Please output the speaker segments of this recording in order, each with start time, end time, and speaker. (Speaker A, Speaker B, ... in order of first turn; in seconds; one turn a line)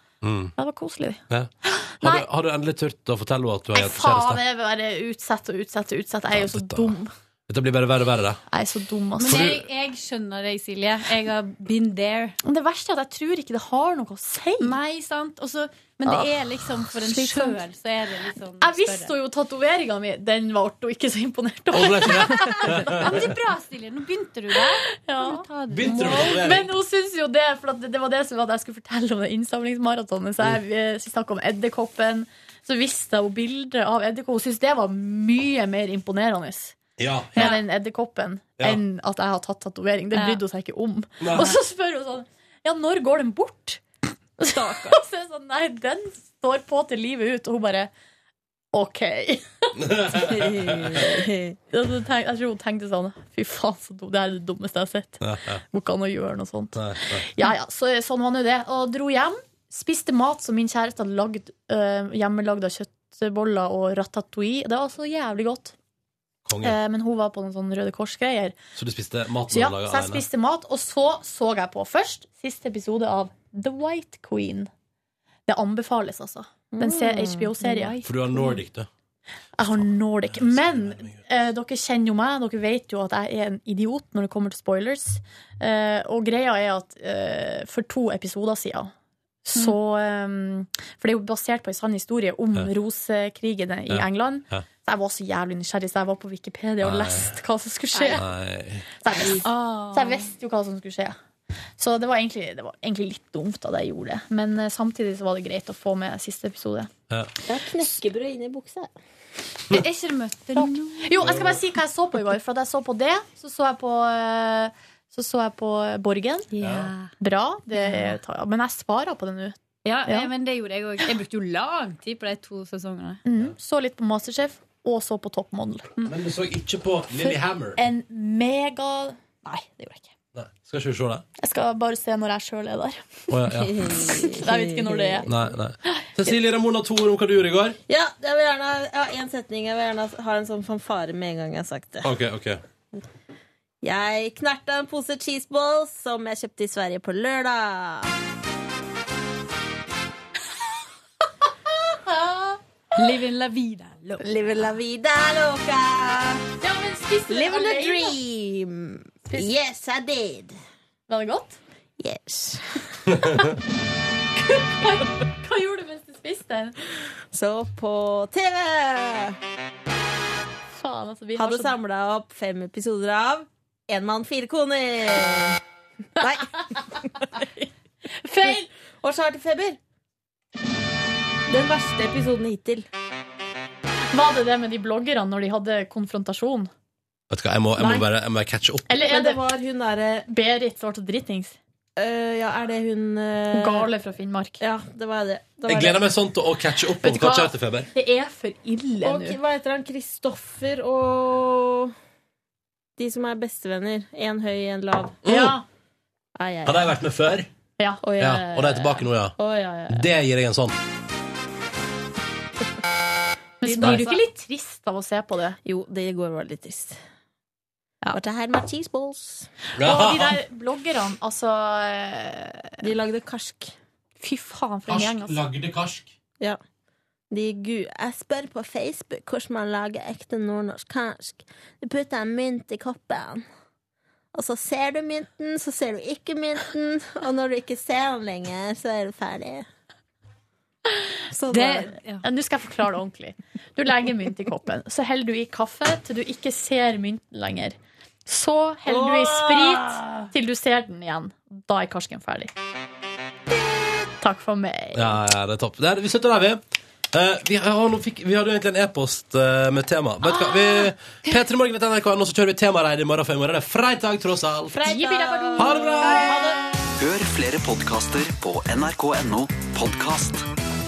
Speaker A: 0.2-0.5
Speaker B: 0.6-2.3
Speaker A: 2.0-4.4
Speaker B: 3.7-7.1
Speaker A: 6.4-7.0
Speaker A: 7.5-8.4
Speaker B: 8.5-9.5
Speaker C: 9.2-12.4
Speaker A: 9.3-9.6
Speaker B: 12.4-14.8
Speaker C: 14.6-19.1
Speaker B: 16.1-16.3
Speaker B: 16.9-17.6
Speaker B: 18.6-23.1
Speaker A: 21.7-23.2
Speaker C: 23.0-26.3
Speaker B: 24.9-36.8
Speaker A: 25.7-26.7
Speaker A: 37.0-37.4
Speaker B: 37.4-43.8
Speaker C: 37.4-37.6
Speaker C: 40.1-40.4
Speaker A: 41.2-41.5
Speaker B: 44.4-47.9
Speaker C: 44.5-45.0
Speaker B: 48.7-50.0
Speaker A: 49.8-51.2
Speaker D: 50.3-51.6
Speaker B: 51.7-65.8
Speaker A: 55.2-55.6
Speaker A: 56.8-57.3
Speaker A: 66.5-66.8
Speaker B: 66.6-68.6
Speaker A: 68.8-70.2
Speaker B: 69.5-74.7
Speaker B: 75.5-78.6
Speaker D: 76.7-78.0
Speaker A: 78.0-78.9
Speaker B: 79.6-88.9
Speaker A: 79.6-81.2
Speaker B: 89.5-98.2
Speaker A: 93.9-94.6
Speaker A: 96.8-97.3
Speaker C: 97.9-98.2
Speaker A: 98.1-98.9
Speaker B: 99.0-101.2
Speaker C: 99.4-100.3
Speaker B: 101.8-106.9
Speaker D: 107.5-108.9
Speaker C: 109.7-111.2
Speaker B: 110.6-116.5
Speaker A: 111.2-111.6
Speaker C: 116.5-117.1
Speaker A: 116.6-116.9
Speaker B: 117.2-120.3
Speaker C: 117.7-118.2
Speaker C: 119.8-123.2
Speaker B: 123.3-126.1
Speaker A: 126.1-127.8
Speaker B: 127.2-130.1
Speaker A: 130.3-131.2
Speaker B: 131.4-133.3
Speaker A: 133.3-133.7
Speaker D: 133.6-135.3
Speaker B: 133.9-135.3
Speaker A: 135.3-137.8
Speaker B: 135.8-136.1
Speaker D: 137.9-142.1
Speaker A: 142.0-142.6
Speaker D: 143.8-148.1
Speaker B: 152.0-152.6
Speaker C: 153.0-154.3
Speaker D: 154.2-156.4
Speaker B: 156.6-158.2
Speaker D: 157.3-160.6
Speaker B: 159.3-159.5
Speaker B: 161.1-161.6
Speaker D: 162.0-163.0
Speaker B: 164.4-166.8
Speaker D: 167.3-169.4
Speaker B: 170.7-171.7
Speaker D: 171.3-175.6
Speaker D: 176.2-177.2
Speaker B: 176.2-178.7
Speaker D: 178.4-179.8
Speaker D: 181.5-182.9
Speaker B: 184.1-186.7
Speaker A: 187.3-188.9
Speaker D: 187.8-188.1
Speaker B: 188.9-189.4
Speaker D: 189.0-190.3
Speaker B: 190.3-191.6
Speaker D: 192.0-193.9
Speaker B: 193.5-194.6
Speaker D: 194.6-196.1
Speaker A: 195.7-197.9
Speaker B: 197.0-199.4
Speaker D: 199.0-201.9
Speaker D: 203.0-205.2
Speaker A: 205.2-205.6
Speaker B: 205.3-205.7
Speaker D: 206.4-206.9
Speaker A: 206.7-207.5
Speaker B: 207.8-208.9
Speaker D: 208.0-210.1
Speaker A: 208.2-209.4
Speaker A: 209.9-210.8
Speaker B: 213.6-215.6
Speaker C: 213.6-214.2
Speaker A: 213.8-214.1
Speaker D: 215.7-217.0
Speaker D: 218.1-219.5
Speaker A: 219.8-220.4
Speaker B: 219.8-222.9
Speaker D: 222.8-223.7
Speaker B: 224.2-225.4
Speaker A: 224.9-226.1
Speaker D: 227.3-233.4
Speaker D: 234.3-239.7
Speaker D: 241.3-241.7
Speaker C: 241.5-242.2
Speaker B: 241.5-247.8
Speaker B: 248.3-252.5
Speaker D: 248.9-250.3
Speaker B: 254.2-255.2
Speaker A: 254.9-256.6
Speaker A: 257.1-264.8
Speaker D: 264.7-266.6
Speaker B: 264.8-266.4
Speaker A: 265.6-266.4
Speaker E: 267.0-270.4